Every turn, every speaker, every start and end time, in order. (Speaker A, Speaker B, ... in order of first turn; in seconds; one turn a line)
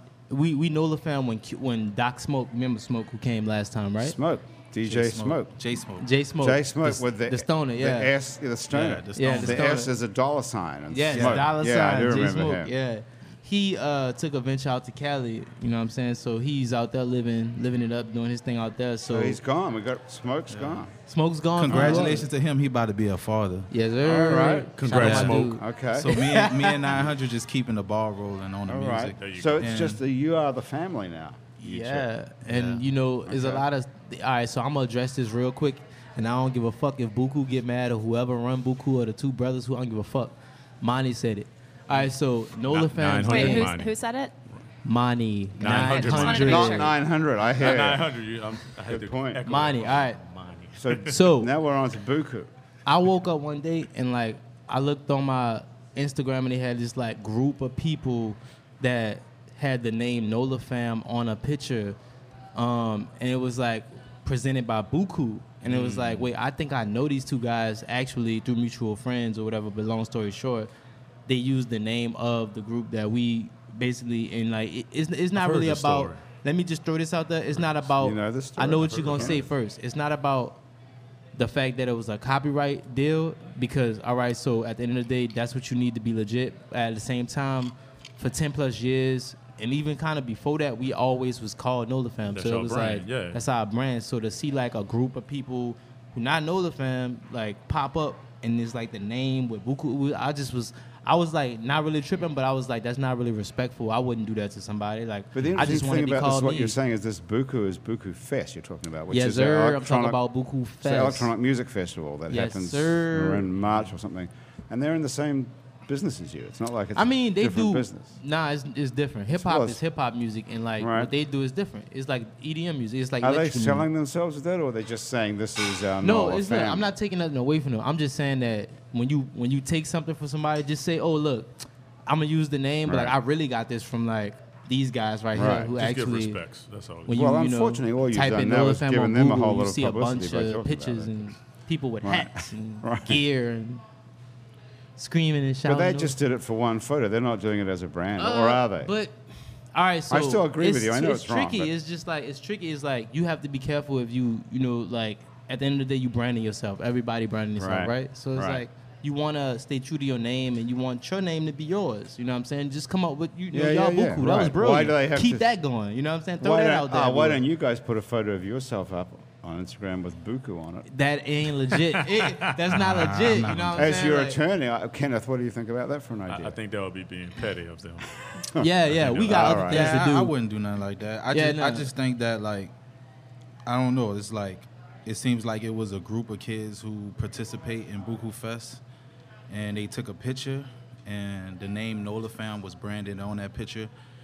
Speaker A: 0.3-4.2
Speaker B: 4.0-5.5
Speaker C: 4.8-6.1
Speaker A: 6.0-8.1
Speaker B: 6.4-12.7
Speaker C: 8.7-9.8
Speaker A: 9.1-9.9
Speaker A: 10.9-19.4
Speaker C: 11.1-11.5
Speaker B: 19.1-20.9
Speaker C: 20.5-20.8
Speaker A: 21.1-22.2
Speaker C: 21.6-23.7
Speaker B: 21.7-22.2
Speaker A: 23.7-26.9
Speaker B: 24.0-24.7
Speaker D: 24.4-25.6
Speaker C: 24.9-25.4
Speaker B: 25.5-26.2
Speaker C: 25.9-30.0
Speaker B: 28.6-32.1
Speaker D: 29.2-29.7
Speaker A: 31.6-43.7
Speaker C: 32.5-32.9
Speaker B: 33.3-33.6
Speaker D: 42.6-43.9
Speaker E: 43.2-44.3
Speaker A: 44.8-46.9
Speaker D: 45.6-46.8
Speaker E: 45.6-46.9
Speaker B: 46.4-48.1
Speaker D: 47.6-51.1
Speaker B: 48.9-49.4
Speaker A: 49.5-50.2
Speaker B: 50.8-52.5
Speaker A: 51.1-51.5
Speaker A: 52.9-62.0
Speaker A: 62.5-70.7
Speaker D: 65.6-66.3
Speaker A: 71.3-80.6
Speaker D: 75.3-76.2
Speaker B: 77.9-79.4
Speaker D: 78.8-79.4
Speaker A: 81.3-106.8
Speaker D: 92.3-93.4
Speaker B: 105.3-110.2
Speaker A: 109.1-111.3
Speaker B: 110.8-118.1
Speaker A: 112.3-113.5
Speaker A: 116.9-123.9
Speaker B: 119.3-119.8
Speaker B: 120.8-121.1
Speaker B: 123.2-126.9
Speaker A: 126.0-136.4
Speaker B: 132.8-133.2
Speaker B: 135.3-135.7
Speaker D: 135.8-137.1
Speaker A: 137.1-143.8
Speaker B: 137.1-141.3
Speaker B: 142.0-143.2
Speaker A: 145.0-146.2
Speaker B: 145.6-148.9
Speaker A: 148.2-149.2
Speaker A: 149.7-167.4
Speaker B: 150.1-151.7
Speaker B: 157.6-158.6
Speaker B: 163.5-165.5
Speaker B: 166.4-170.8
Speaker A: 170.9-174.4
Speaker D: 172.1-172.5
Speaker C: 172.8-173.8
Speaker B: 173.7-176.6
Speaker D: 176.3-178.1
Speaker A: 178.6-180.3
Speaker D: 178.9-179.6
Speaker B: 179.3-179.9
Speaker C: 179.6-182.7
Speaker A: 181.3-181.9
Speaker C: 183.6-188.8
Speaker C: 189.5-193.9